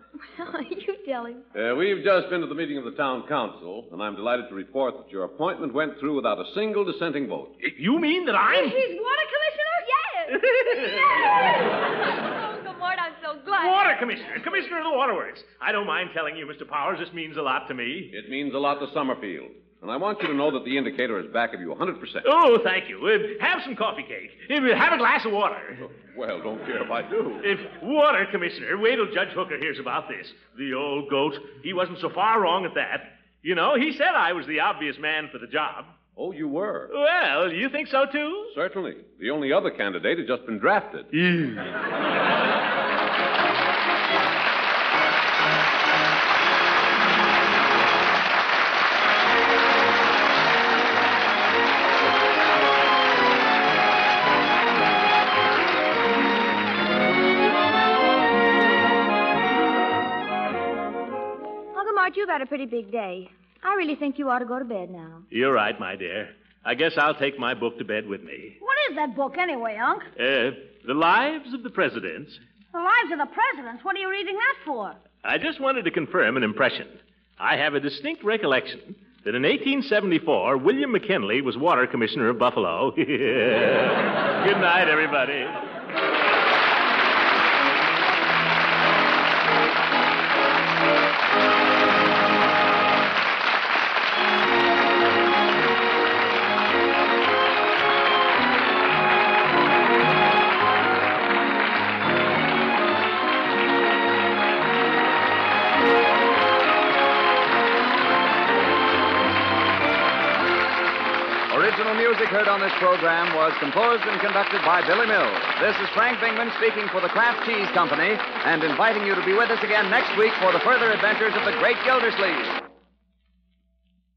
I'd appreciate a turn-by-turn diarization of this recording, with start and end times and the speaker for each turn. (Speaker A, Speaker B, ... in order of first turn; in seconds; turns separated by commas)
Speaker A: 0.3-1.4, Speaker B: 1.5-7.5, Speaker C: 7.6-8.8, Speaker A: 8.6-13.9, Speaker D: 8.7-9.8, Speaker C: 10.3-11.5, Speaker C: 13.5-18.1, Speaker B: 18.1-22.3, Speaker C: 22.2-25.8, Speaker B: 25.8-27.4, Speaker C: 27.4-36.0, Speaker B: 36.2-36.9, Speaker C: 36.9-38.5, Speaker B: 38.5-41.1, Speaker C: 41.2-41.6, Speaker A: 61.7-65.3, Speaker C: 65.3-68.6, Speaker D: 68.6-70.1, Speaker C: 70.2-72.4, Speaker D: 72.7-75.0, Speaker C: 75.2-85.6, Speaker E: 111.5-122.6